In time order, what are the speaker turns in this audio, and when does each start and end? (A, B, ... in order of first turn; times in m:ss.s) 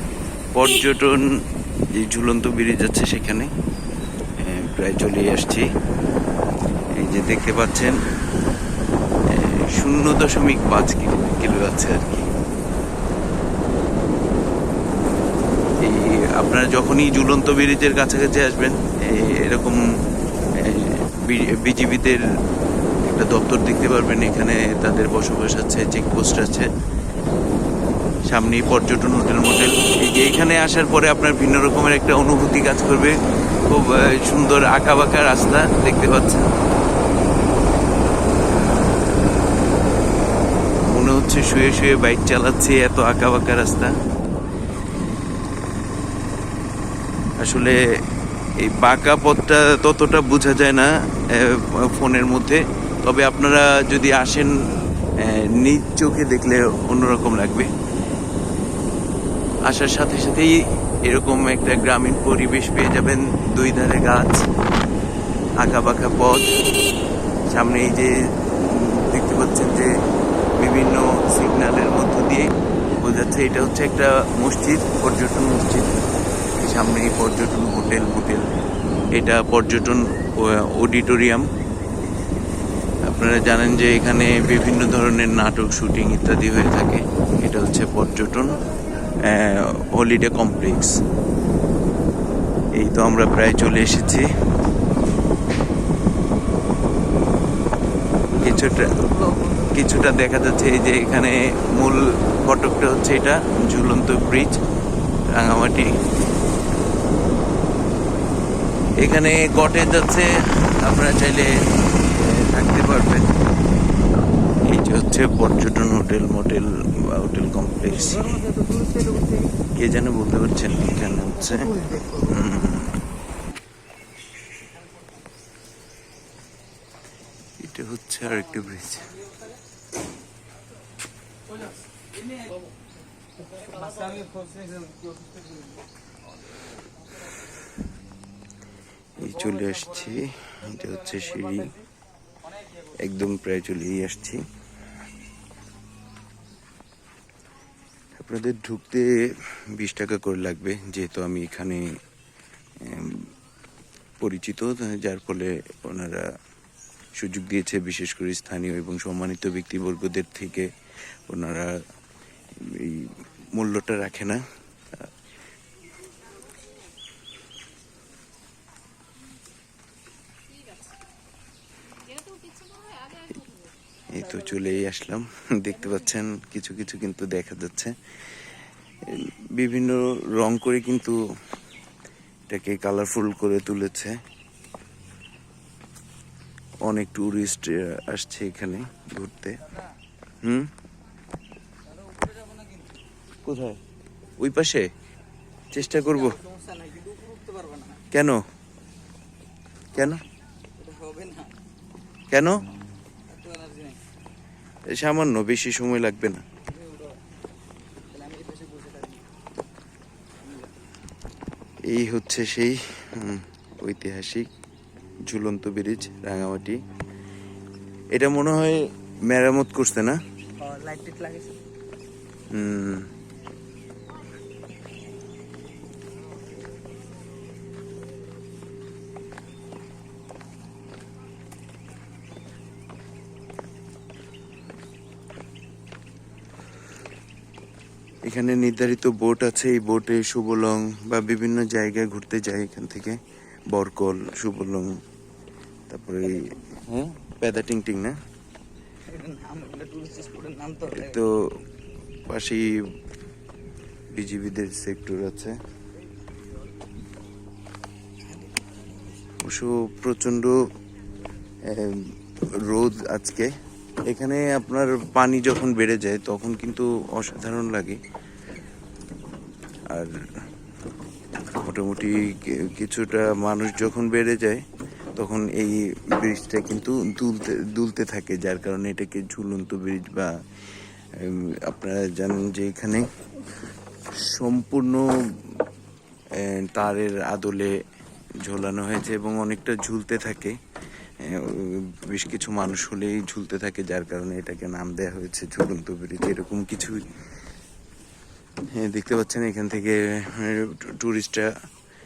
0:00.5-0:01.4 A
0:01.9-0:03.5 A
0:04.4-0:05.6 A
0:06.9-0:08.0 A
0:09.3-0:12.3 A
0:15.8-0:19.8 A
0:20.6-0:22.2 A
0:23.0-0:26.7 A
0:28.3-0:33.2 A
0:33.7-0:36.5 A
0:40.8-0:43.9 A
0:47.4-0:47.8 A
0:48.6-0:54.5 A
0:55.2-0:57.7 A
0:59.7-1:04.4 A
1:05.6-1:06.6 A
1:07.5-1:09.9 A
1:10.6-1:16.0 A
1:16.6-1:18.4 A
1:19.1-1:21.5 A
1:23.1-1:28.6 A
1:29.2-1:31.0 A
1:32.8-1:34.3 A
1:38.3-1:39.1 A
1:39.0-1:39.7 B
1:39.7-1:44.6 A
1:45.3-1:45.9 A
1:49.0-1:53.3 A
1:54.6-1:58.5 A
1:58.4-1:59.5 B
1:59.7-2:03.0 A
2:01.9-2:02.2 B
2:07.6-2:09.2 A
2:13.6-2:15.6 B
2:19.2-2:21.8 A
2:23.0-2:24.4 A
2:28.2-2:31.9 A
2:32.8-2:33.3 A
2:34.2-2:36.3 A
2:37.2-2:40.7 A
2:41.3-2:41.8 A
2:42.6-2:44.4 A
2:54.1-2:58.5 A
2:59.0-3:01.2 A
3:02.5-3:04.2 A
3:06.8-3:09.6 A
3:10.4-3:10.7 A
3:11.9-3:12.9 B
3:13.4-3:13.8 A
3:14.4-3:14.9 A
3:15.7-3:16.4 A
3:15.7-3:18.0 B
3:18.1-3:18.4 A
3:19.9-3:20.2 A
3:20.8-3:21.5 B
3:22.3-3:22.6 A
3:23.3-3:24.0 B
3:24.9-3:26.4 A
3:26.7-3:27.2 B
3:28.1-3:29.2 B
3:30.4-3:30.7 B
3:31.9-3:34.5 A
3:35.3-3:36.8 A
3:38.1-3:40.2 A
3:40.6-3:41.6 B
3:42.5-3:43.1 A
3:58.2-4:03.2 A
4:03.7-4:05.0 A
4:05.9-4:08.1 A
4:09.1-4:11.2 B
4:10.9-4:11.5 A
4:12.3-4:12.7 A
4:14.1-4:15.6 A
4:18.3-4:18.8 B
4:19.4-4:20.6 A
4:21.6-4:23.5 A
4:24.1-4:28.0 A
4:29.9-4:30.1 A
4:31.6-4:34.6 A
4:35.2-4:40.3 A
4:41.1-4:43.0 A
4:44.2-4:45.5 A
4:46.3-4:47.8 A
4:48.4-4:50.6 A
4:51.2-4:57.0 A
4:58.7-5:01.5 A